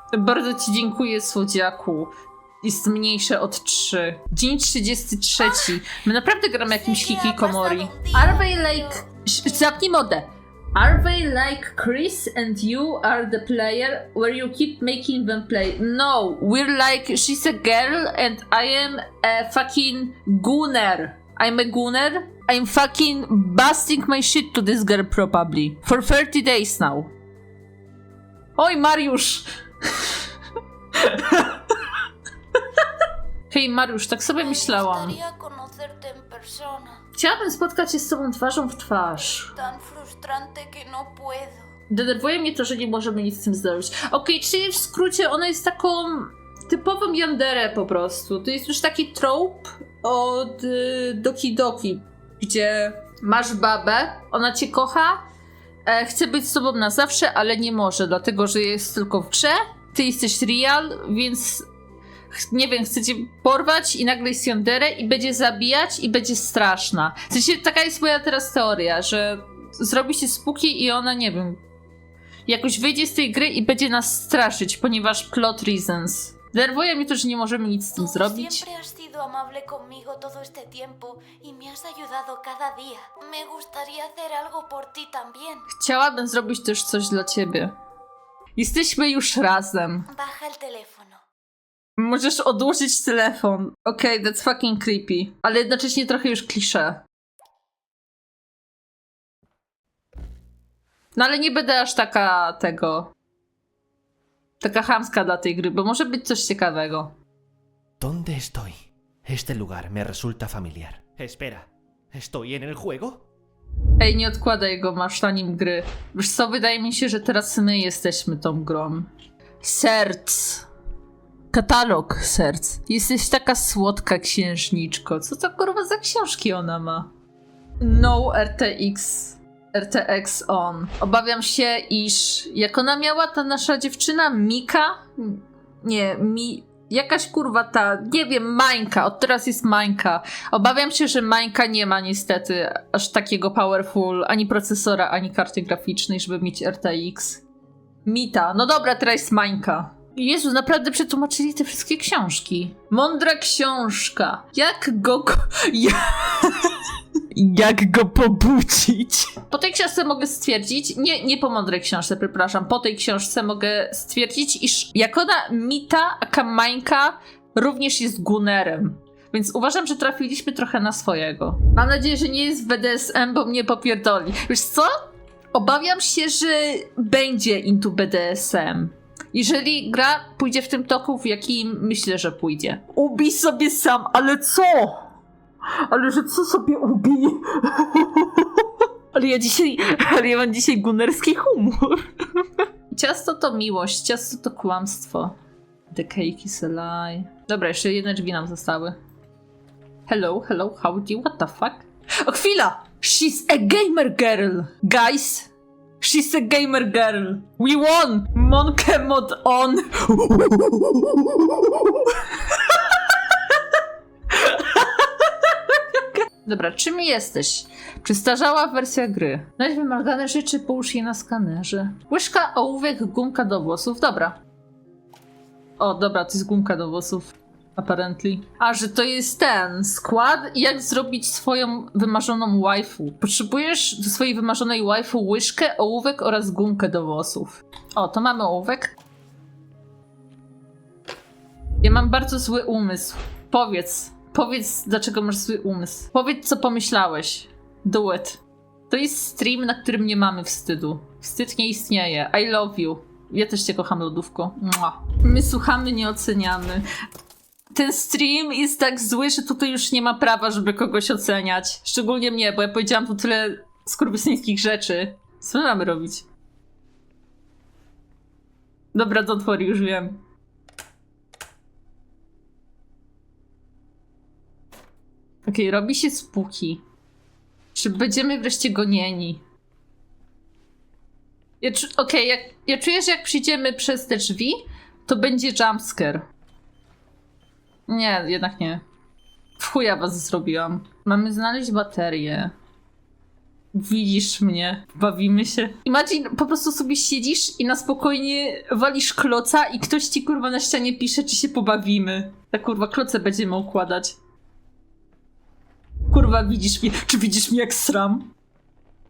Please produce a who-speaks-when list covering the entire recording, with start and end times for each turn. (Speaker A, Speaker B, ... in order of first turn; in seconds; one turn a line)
Speaker A: 0.1-27.1
Speaker B: 5.4-5.7
Speaker B: 6.7-9.6
Speaker A: 28.6-30.2
Speaker A: 30.9-31.9
Speaker A: 33.5-35.2
Speaker B: 34.4-37.0
Speaker A: 37.2-39.5
Speaker B: 39.5-41.7
Speaker A: 41.9-55.3
Speaker A: 55.9-61.7
Speaker A: 62.3-71.6
Speaker A: 72.5-78.7
Speaker B: 78.0-85.7
Speaker A: 85.7-87.7
Speaker A: 88.6-90.1
Speaker B: 90.1-91.2
Speaker A: 92.0-97.0
Speaker A: 101.2-103.1
Speaker A: 104.6-107.1
Speaker C: 108.0-113.2
Speaker A: 114.0-119.1
Speaker A: 119.6-120.7
Speaker A: 121.5-127.1
Speaker A: 127.8-147.4
Speaker A: 148.1-174.9
Speaker A: 175.5-185.1
Speaker A: 185.8-195.4
Speaker A: 195.9-199.0
Speaker A: 200.1-205.5
Speaker A: 206.0-213.8
Speaker A: 214.3-224.4
Speaker A: 225.8-238.9
Speaker A: 241.8-256.9
Speaker A: 257.7-266.3
Speaker A: 268.9-270.2
Speaker A: 275.5-276.8
Speaker A: 277.8-279.4
Speaker A: 281.6-286.2
Speaker A: 287.9-288.8
Speaker A: 289.6-292.5
Speaker A: 293.7-304.2
Speaker A: 306.1-308.3